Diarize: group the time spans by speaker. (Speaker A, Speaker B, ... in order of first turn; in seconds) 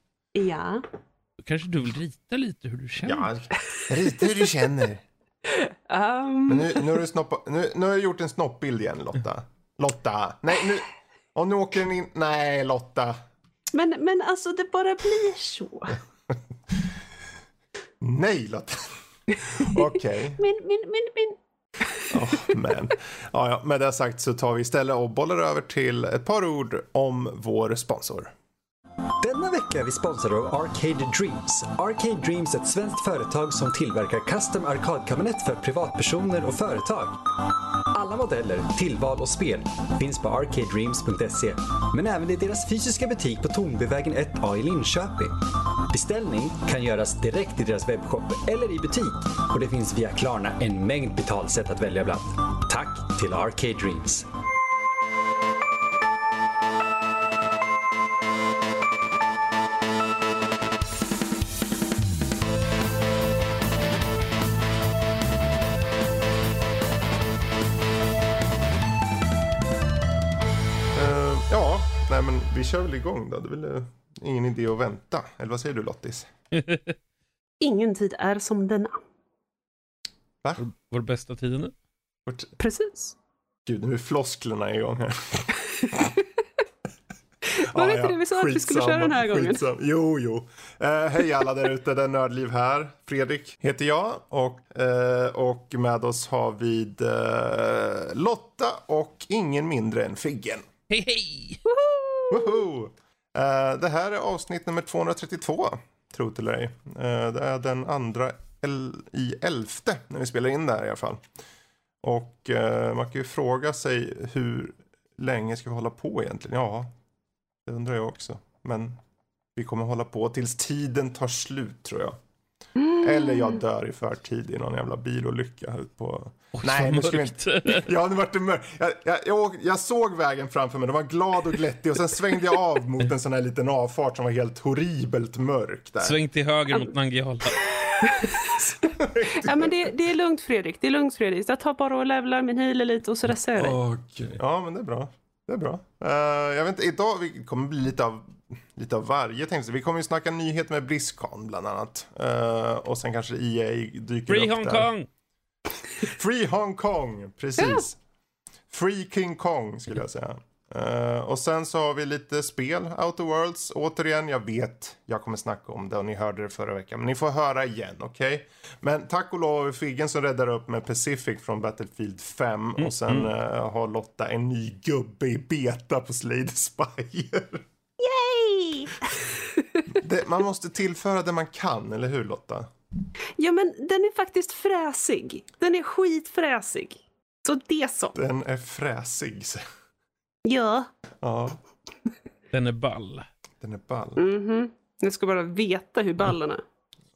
Speaker A: 0.3-0.8, 3.7-4.4, 5.5-7.0, 13.7-16.0, 20.4-21.4, 77.6-79.0, 82.6-83.1, 85.6-86.3, 87.5-89.6, 101.7-102.6, 122.8-123.6, 138.0-143.8, 157.6-157.8, 178.0-179.8, 183.4-188.2, 190.4-190.9, 194.2-196.6
Speaker B: 1.4-3.3, 76.5-77.0, 80.6-81.7, 100.9-101.6, 126.6-127.9, 136.0-137.7, 154.3-155.1, 172.8-173.3, 192.5-193.2
Speaker C: 3.0-5.0, 6.5-13.2, 16.3-16.8, 18.0-20.4, 22.1-28.3, 70.9-76.3, 82.2-82.5, 83.6-85.5, 87.7-100.7, 102.3-111.2, 112.0-116.9, 117.7-119.0, 119.5-122.1, 123.0-136.2, 138.6-139.8, 143.5-154.9, 156.0-158.0, 158.7-177.6, 179.9-182.7, 188.1-189.6, 191.2-191.6, 193.6-194.3
Speaker D: 29.2-37.2, 37.9-45.3, 45.9-54.3